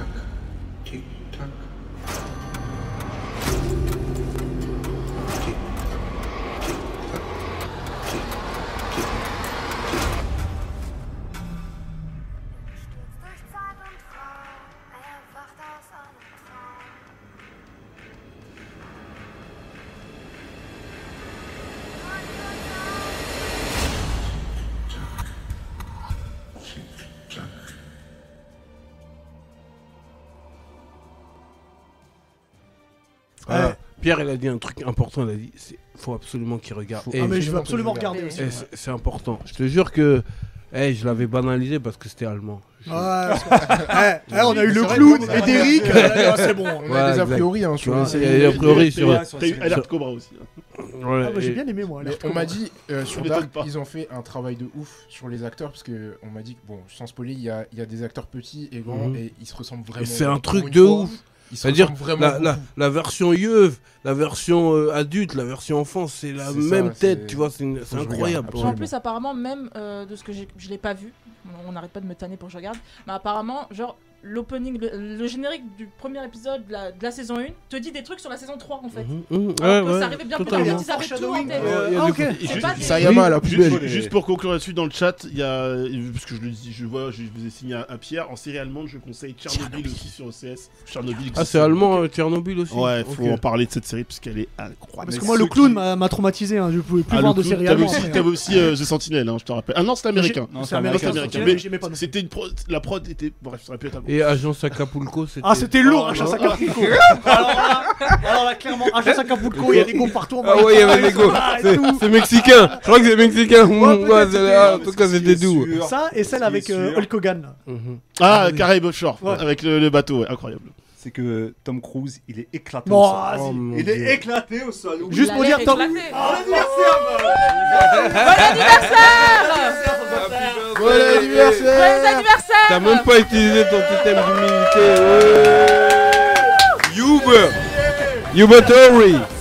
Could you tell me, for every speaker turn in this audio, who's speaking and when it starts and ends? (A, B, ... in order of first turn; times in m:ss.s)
0:33.4-0:37.7 A
0:33.5-0:33.8 B
0:37.1-0:38.4 C
0:37.2-0:38.7 B
0:38.0-0:38.4 D
0:38.3-0:43.1 A
0:42.9-0:46.8 B
0:43.5-0:46.2 C
0:44.3-0:45.8 E
0:44.8-0:46.5 F
0:45.8-0:49.8 A
0:46.8-0:48.8 C
0:48.0-0:48.3 B
0:48.3-0:50.5 E
0:48.6-0:49.8 F
0:50.8-0:51.6 A
0:51.2-0:52.6 B
0:52.0-1:02.7 C
0:53.0-0:53.7 E
0:58.8-0:59.2 A
0:59.9-1:08.8 A
1:06.4-1:08.9 C
1:08.6-1:23.2 D
1:18.9-1:23.1 A
1:20.4-1:22.6 B
1:22.3-1:32.0 E
1:22.6-1:24.0 C
1:22.9-1:24.1 F
1:31.3-1:33.4 A
1:32.7-1:35.5 E
1:35.0-1:38.3 B
1:35.0-1:35.8 F
1:37.1-1:44.2 E
1:40.1-1:42.1 B
1:40.5-1:41.6 F
1:44.0-1:48.2 A
1:45.4-1:53.3 B
1:45.8-1:47.1 E
1:49.0-1:55.7 A
1:49.6-1:49.9 E
1:50.6-1:51.1 E
1:53.6-1:57.1 F
1:54.2-1:54.7 B
1:55.8-1:57.6 B
1:57.7-1:58.0 A
1:58.2-2:00.7 E
2:01.0-2:11.7 F
2:02.8-2:03.9 B
2:03.3-2:04.2 A
2:05.1-2:09.9 B
2:05.1-2:06.2 D
2:07.8-2:09.3 A
2:08.1-2:09.8 D
2:10.1-2:17.6 A
2:10.8-2:11.8 C
2:11.7-2:13.1 D
2:17.1-2:17.6 F
2:18.3-2:19.3 A